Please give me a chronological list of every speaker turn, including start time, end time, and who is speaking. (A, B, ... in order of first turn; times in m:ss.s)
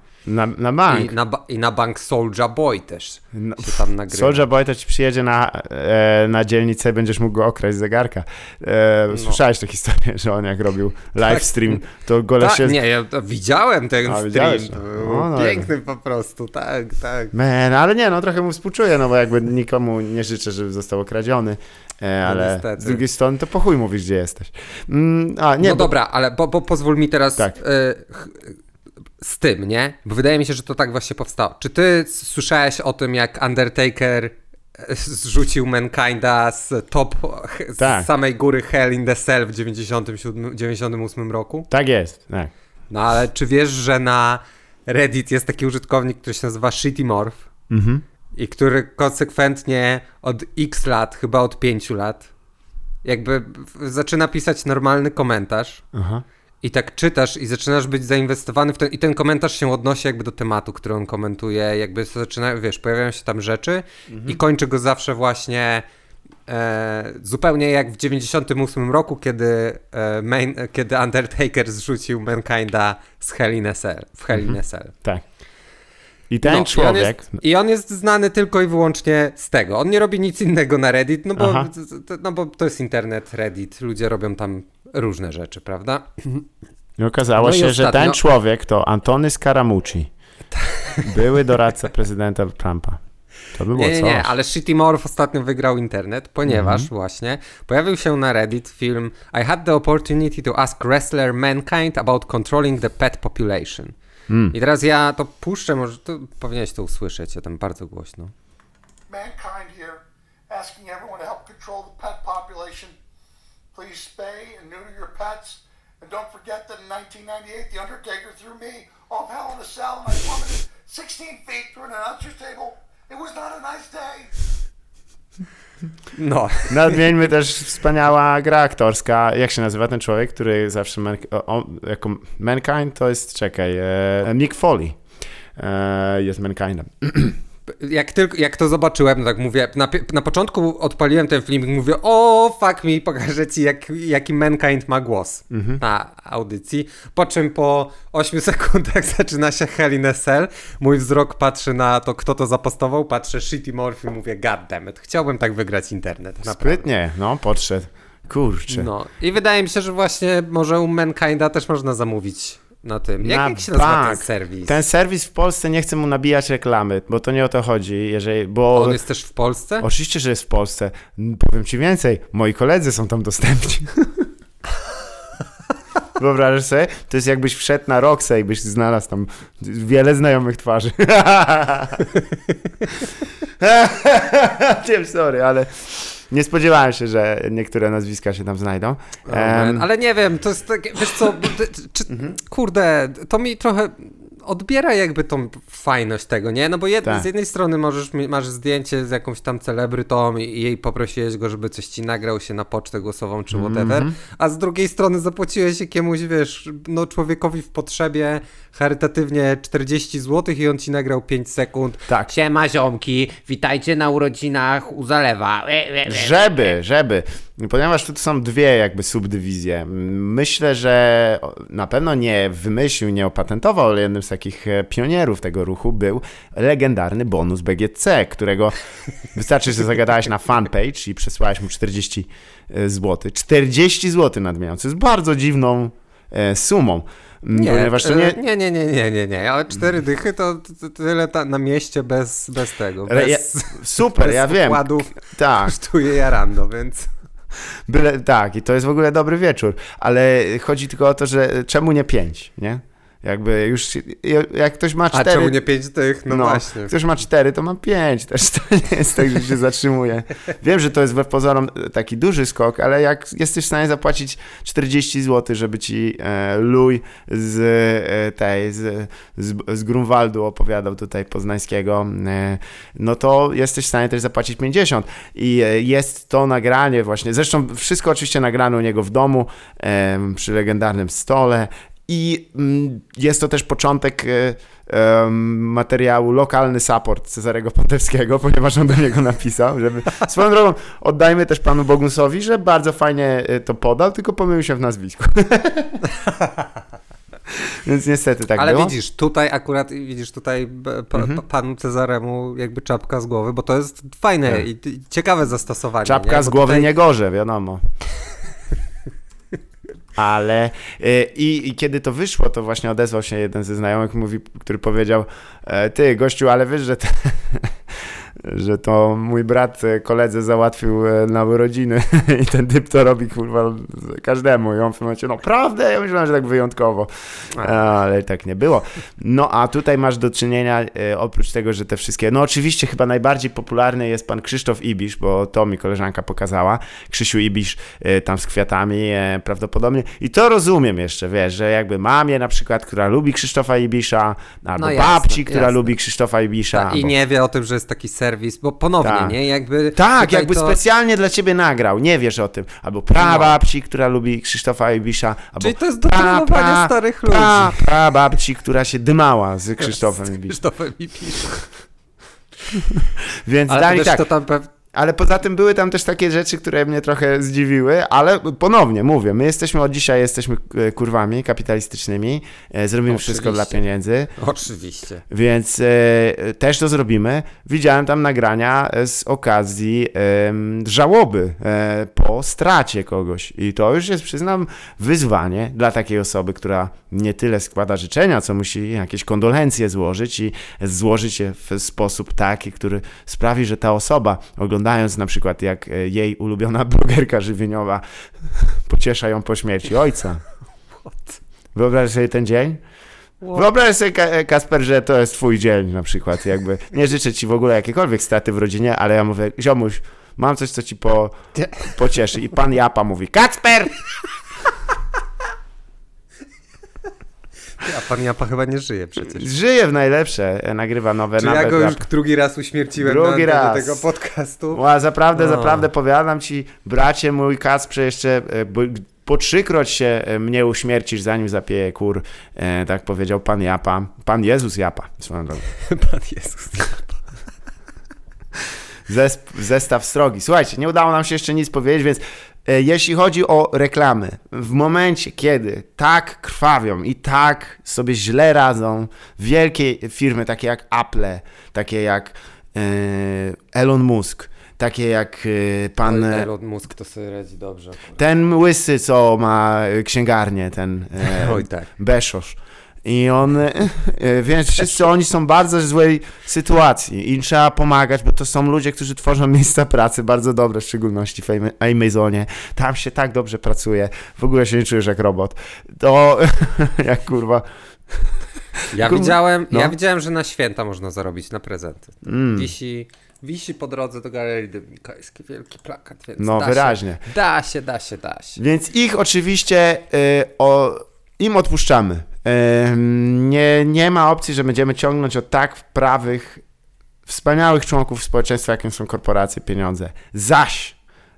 0:00.3-0:01.1 A
0:00.9-0:04.4 B
0:03.3-0:12.8 A
0:09.1-0:09.4 B
0:11.2-0:11.8 B
0:12.4-0:17.3 B
0:14.0-0:15.7 A
0:17.3-0:25.9 A
0:22.2-0:23.0 B
0:25.6-0:28.6 B
0:29.2-0:41.7 B
0:37.8-0:38.1 A
0:41.7-0:42.5 A
0:42.9-0:47.4 B
0:47.7-0:48.0 A
0:48.4-0:52.3 B
0:53.0-0:55.8 B
0:55.9-0:56.2 A
0:56.6-1:05.8 B
1:04.1-1:04.4 A
1:06.5-1:14.9 B
1:14.3-1:15.2 A
1:16.3-1:17.3 A
1:16.4-1:26.4 B
1:21.4-1:21.7 A
1:27.0-1:30.1 A
1:27.4-1:28.2 B
1:30.6-1:31.2 B
1:31.0-1:33.0 A
1:33.5-1:34.3 A
1:33.7-1:44.0 B
1:36.5-1:36.9 A
1:44.3-1:44.6 A
1:44.5-1:48.3 B
1:49.1-1:52.9 C
1:53.7-2:04.4 C
2:06.1-2:06.9 B
2:06.7-2:15.0 A
2:15.6-2:17.4 A
2:17.7-2:36.9 B
2:25.5-2:25.8 A
2:36.5-2:38.9 A
2:38.7-2:44.8 B
2:43.2-2:49.0 A
2:48.7-2:49.9 B
2:49.8-2:54.3 A
2:56.2-3:02.1 A
3:03.6-3:09.9 A
3:09.3-3:36.7 B
3:12.1-3:12.4 A
3:23.5-3:24.2 A
3:36.1-3:58.4 A
3:57.6-4:07.1 B
4:03.1-4:05.8 A
4:07.9-4:15.6 A
4:15.1-4:16.9 B
4:16.3-4:56.0 A
4:57.5-4:58.9 A
4:58.6-5:06.9 B
5:01.2-5:01.4 A
5:06.0-5:07.8 A
5:10.2-5:47.1 A
5:44.8-5:45.9 B
5:46.7-5:50.8 B
5:49.0-5:49.4 A
5:50.0-6:00.6 A
5:53.2-5:53.6 B
5:55.6-5:57.9 B
5:59.9-6:01.7 B
6:03.0-6:04.3 A
6:03.7-6:04.7 B
6:04.9-6:14.3 A
6:13.1-6:13.8 B
6:14.4-6:15.2 B
6:15.3-6:40.4 A
6:41.0-6:41.4 B
6:41.8-6:42.8 A
6:43.5-6:54.0 A
6:51.6-6:51.9 B
6:57.8-6:59.5 B
6:59.2-7:02.1 A
7:01.4-7:04.8 B
7:03.0-7:04.0 A
7:04.7-7:15.7 A
7:05.4-7:05.9 B
7:15.8-7:17.2 B
7:19.1-7:36.5 A
7:36.0-7:38.2 B
7:38.2-8:00.0 A
7:41.2-7:41.9 B
7:58.9-8:08.6 B
8:02.2-8:02.7 A
8:06.4-8:07.2 A
8:08.6-8:16.6 A
8:17.3-8:21.0 A